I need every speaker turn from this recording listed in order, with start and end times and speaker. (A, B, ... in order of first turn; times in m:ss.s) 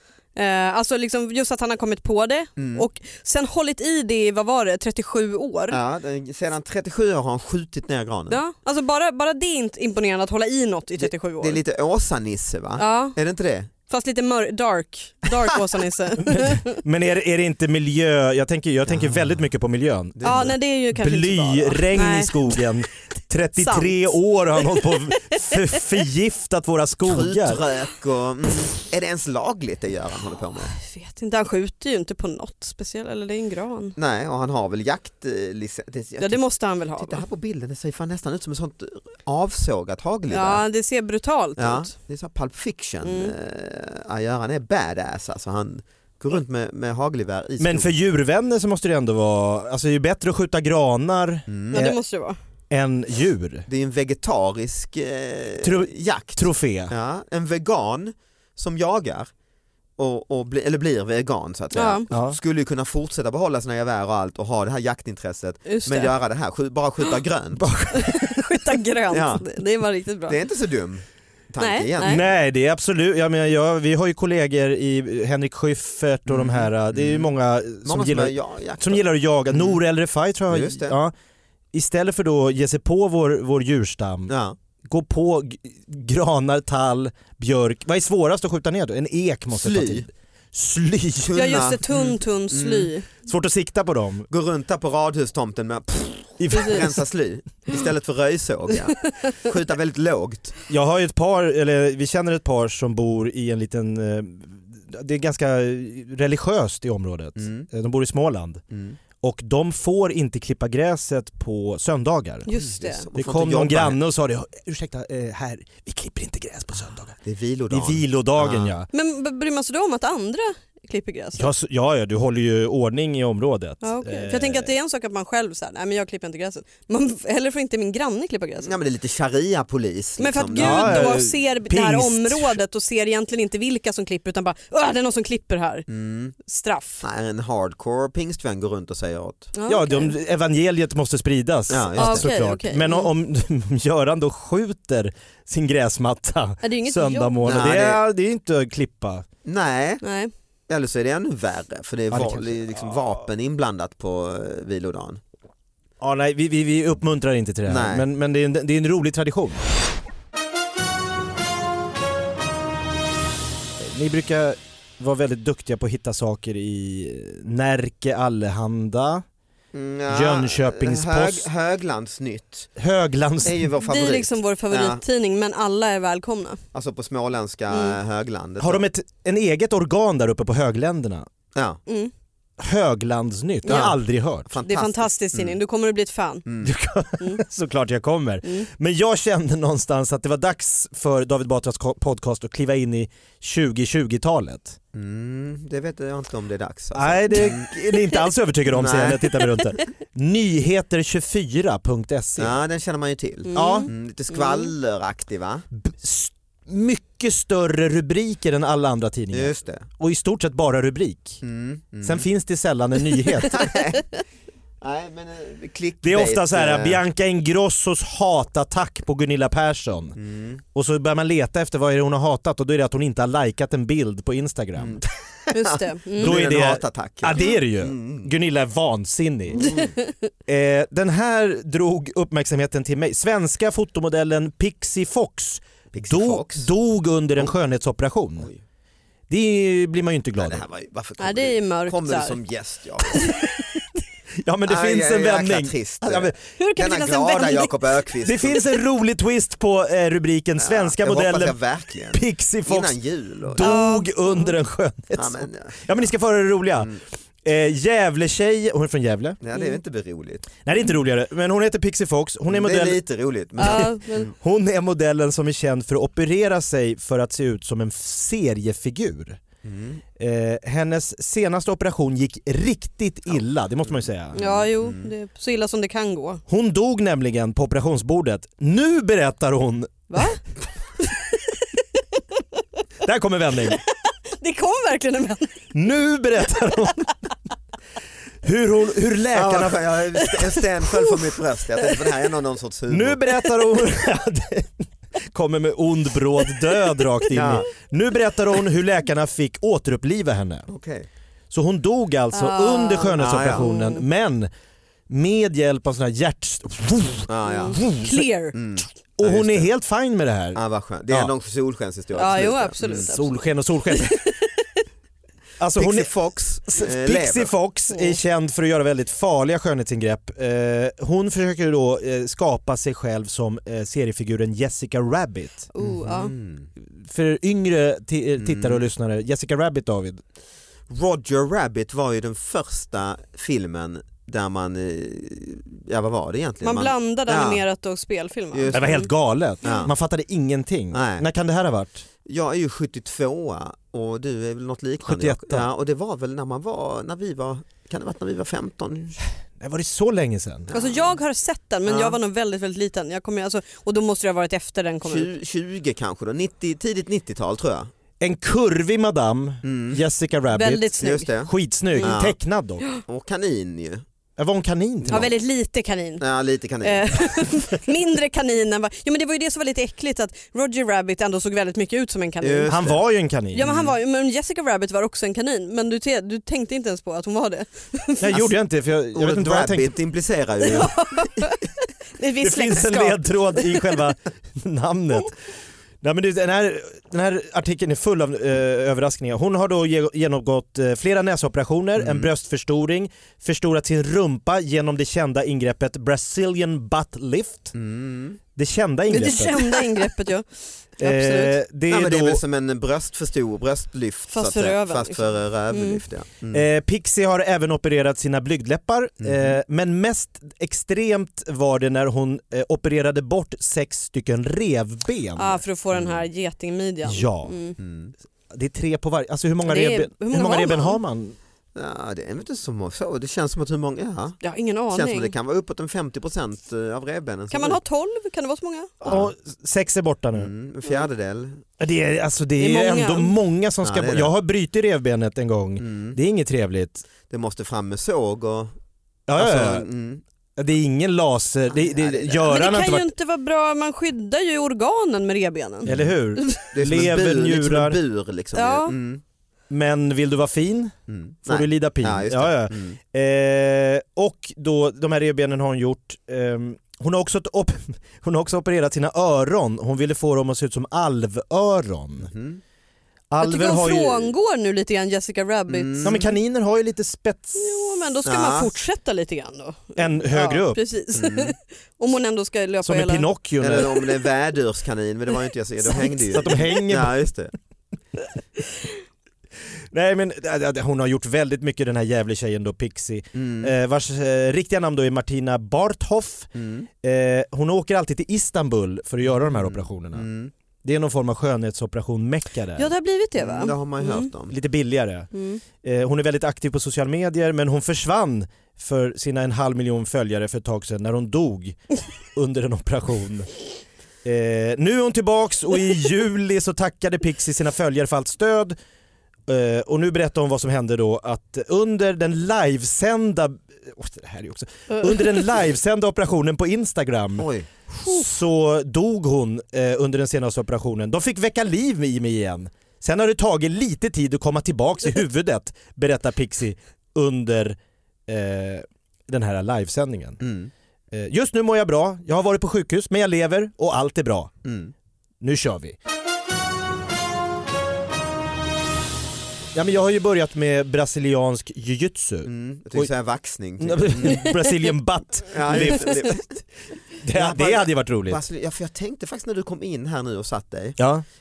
0:00.4-0:05.8 A
0:02.6-0:02.9 B
0:05.7-0:08.4 B
0:08.3-0:11.6 A
0:11.0-0:13.7 B
0:12.8-0:13.2 A
0:13.9-0:16.8 A
0:16.2-0:27.6 C
0:18.9-0:19.4 B
0:20.2-0:20.6 B
0:20.2-0:22.8 A
0:23.6-0:24.1 A
0:24.6-0:25.8 A
0:27.0-0:30.7 B
0:30.7-0:34.0 A
0:34.0-0:36.4 B
0:36.2-0:37.2 A
0:37.0-0:40.6 B
0:40.3-0:41.9 A
0:41.6-0:47.9 B
0:43.0-0:43.3 A
0:47.6-0:52.0 C
0:51.5-0:51.8 B
0:51.7-0:52.4 A
0:52.7-0:53.7 C
0:53.7-0:59.3 B
0:55.6-0:56.9 C
1:00.0-1:07.7 B
1:01.7-1:02.1 A
1:02.1-1:02.4 C
1:05.7-1:06.1 A
1:07.6-1:08.7 C
1:07.9-1:10.4 A
1:09.1-1:09.5 B
1:10.3-1:12.3 B
1:11.6-1:12.2 A
1:12.0-1:21.1 C
1:16.3-1:17.3 B
1:17.8-1:19.8 B
1:20.5-1:21.0 B
1:21.7-1:24.3 C
1:24.3-1:24.6 B
1:24.9-1:31.4 C
1:29.5-1:30.1 B
1:31.2-1:32.9 B
1:31.4-1:33.1 A
1:33.2-1:34.3 C
1:34.3-1:40.6 B
1:36.4-1:37.0 C
1:38.9-1:39.5 A
1:40.7-1:48.6 C
1:47.4-1:47.7 B
1:48.7-1:49.0 B
1:49.2-1:52.5 C
1:52.5-1:53.0 A
1:52.5-1:54.0 B
1:53.2-1:57.2 C
1:57.2-1:58.7 B
1:57.7-1:58.9 C
1:58.9-2:01.5 A
2:01.4-2:04.7 C
2:03.8-2:08.8 A
2:08.6-2:11.2 B
2:10.2-2:15.9 A
2:10.6-2:12.6 C
2:15.9-2:16.3 B
2:16.4-2:17.0 A
2:17.0-2:19.5 B
2:19.6-2:20.2 A
2:19.7-2:29.2 C
2:21.7-2:22.3 B
2:22.0-2:23.1 A
2:26.6-2:27.4 A
2:27.4-2:28.0 B
2:29.4-2:30.0 B
2:30.0-2:30.3 A
2:30.7-2:35.2 B
2:32.1-2:32.8 C
2:36.0-2:39.6 C
2:37.7-2:38.0 B
2:43.8-2:49.2 C
2:49.7-2:52.7 B
2:50.1-2:51.5 C
2:52.8-2:53.7 C
2:53.4-2:55.0 B
2:53.8-2:56.6 A
2:56.7-2:58.8 B
2:57.7-2:58.0 A
2:58.6-3:01.3 C
3:01.6-3:01.8 B
3:01.9-3:02.1 A
3:02.6-3:04.5 C
3:03.7-3:03.9 A
3:03.7-3:05.6 B
3:04.6-3:06.4 A
3:06.5-3:06.7 B
3:06.6-3:14.8 C
3:14.9-3:17.7 B
3:17.0-3:22.6 C
3:18.7-3:19.3 B
3:22.4-3:25.7 B
3:23.5-3:24.7 A
3:23.6-3:23.9 C
3:25.7-3:31.4 C
3:29.3-3:29.9 B
3:31.4-3:32.3 B
3:32.0-3:33.7 C
3:33.5-3:34.1 B
3:34.8-3:37.0 B
3:36.0-3:40.2 C
3:40.2-3:40.6 B
3:40.7-3:45.0 C
3:44.8-3:48.3 B
3:45.5-3:46.3 A
3:46.2-3:49.7 C
3:47.4-3:47.6 A
3:49.5-3:49.9 B
3:50.5-3:58.5 C
3:55.9-3:56.7 B
3:59.3-4:00.6 C
4:00.4-4:03.3 B
4:01.2-4:02.4 A
4:03.1-4:03.4 A
4:04.4-4:06.3 C
4:04.7-4:08.6 B
4:06.6-4:07.7 A
4:08.2-4:11.6 C
4:10.6-4:13.8 B
4:12.1-4:16.9 C
4:13.6-4:14.6 A
4:15.1-4:16.0 B
4:17.4-4:19.4 C
4:19.4-4:20.5 B
4:20.6-4:23.0 C
4:22.5-4:24.3 B
4:23.6-4:24.3 A
4:23.6-4:29.4 C
4:29.6-4:30.0 B
4:30.2-4:34.4 C
4:33.9-4:35.1 B
4:34.4-4:36.4 A
4:36.5-4:40.3 C
4:40.1-4:40.4 A
4:41.0-4:42.4 A
4:43.0-4:43.8 C
4:43.7-4:45.7 A
4:45.7-4:47.1 C
4:48.4-4:49.8 C
4:49.3-4:53.2 B
4:52.9-5:00.7 C
4:57.3-4:57.6 B
5:00.7-5:01.1 B
5:01.5-5:04.5 C
5:02.3-5:04.0 A
5:03.2-5:03.6 B
5:05.1-5:08.3 C
5:07.3-5:07.9 B
5:07.4-5:08.6 A
5:08.5-5:09.7 B
5:09.2-5:11.3 C
5:10.6-5:13.1 B
5:12.2-5:14.8 A
5:12.8-5:14.2 C
5:15.6-5:16.1 C
5:15.8-5:17.5 B
5:16.7-5:25.7 C
5:17.9-5:18.2 A
5:25.7-5:26.3 A
5:25.8-5:26.7 B
5:26.8-5:30.2 C
5:28.4-5:28.8 B
5:30.9-5:37.6 B
5:36.6-5:39.1 A
5:38.5-5:39.0 B
5:38.7-5:42.0 C
5:39.6-5:39.9 B
5:40.9-5:41.3 B
5:42.2-5:49.2 B
5:45.0-5:45.7 C
5:49.6-5:50.7 C
5:50.7-5:51.2 B
5:50.7-5:55.3 A
5:51.9-5:52.2 B
5:55.0-5:57.9 B
5:58.2-6:00.9 C
5:59.6-6:00.0 B
6:00.5-6:01.3 A
6:01.0-6:02.4 B
6:01.4-6:02.8 C
6:03.1-6:04.0 B
6:04.4-6:05.3 C
6:05.1-6:06.2 A
6:06.2-6:07.5 B
6:06.8-6:12.8 A
6:12.4-6:13.0 B
6:12.7-6:13.7 C
6:13.5-6:18.4 A
6:13.6-6:14.0 B
6:18.2-6:19.9 C
6:18.3-6:18.6 B
6:19.1-6:21.3 B
6:20.6-6:24.0 A
6:22.4-6:25.3 C
6:26.0-6:37.7 C
6:32.0-6:32.3 B
6:37.7-6:38.4 B
6:38.6-6:39.8 C
6:39.1-6:40.5 A
6:41.0-6:41.6 A
6:41.0-6:42.4 C
6:41.9-6:46.6 B
6:44.3-6:46.0 A
6:46.5-6:55.6 C
6:49.2-6:49.6 B
6:55.4-6:57.8 A
6:57.0-6:57.5 C
6:57.8-6:58.1 B
6:58.5-7:01.4 C
6:59.6-7:01.0 A
7:01.8-7:04.4 B
7:04.4-7:05.3 A
7:04.9-7:07.8 B
7:07.5-7:09.0 A
7:09.0-7:09.3 B
7:09.0-7:10.5 C
7:10.4-7:11.6 B
7:11.8-7:17.0 C
7:12.6-7:13.4 A
7:13.8-7:14.3 B
7:15.8-7:16.2 B
7:17.3-7:18.7 B
7:19.3-7:19.9 C
7:19.4-7:20.2 B
7:20.6-7:23.1 C
7:21.7-7:22.4 B
7:22.4-7:26.6 A
7:25.8-7:28.0 C
7:25.9-7:26.1 B
7:26.7-7:29.2 B
7:28.6-7:29.0 A
7:29.7-7:30.9 C
7:31.1-7:33.0 B
7:31.5-7:42.3 C
7:42.2-7:42.6 B
7:43.3-7:44.3 C
7:43.4-7:46.3 A
7:45.7-7:46.3 B
7:46.0-7:47.6 C
7:47.6-7:53.3 A
7:48.2-7:48.7 B
7:50.0-7:50.8 C
7:51.1-7:51.5 B
7:52.8-7:54.0 C
7:53.6-7:57.5 B
7:55.9-7:56.7 A
7:56.3-7:57.2 C
7:59.9-8:06.5 C
8:03.3-8:03.7 B
8:06.5-8:06.9 B
8:07.0-8:10.3 C
8:09.3-8:10.5 B
8:10.8-8:12.9 C
8:12.8-8:14.3 A
8:13.4-8:14.6 B
8:14.5-8:15.3 C
8:15.3-8:15.6 A
8:15.8-8:21.8 C
8:22.4-8:23.5 C
8:24.2-8:28.8 C
8:29.5-8:37.5 C
8:37.4-8:38.1 B
8:38.0-8:50.4 C
8:50.4-8:50.7 B
8:51.1-8:54.5 C
8:54.6-8:54.9 B
8:55.4-8:56.0 C
8:59.7-9:03.1 C
9:02.4-9:04.6 B
9:03.8-9:06.4 C
9:05.5-9:06.6 B
9:07.2-9:08.4 C
9:07.3-9:11.0 B
9:11.0-9:11.2 C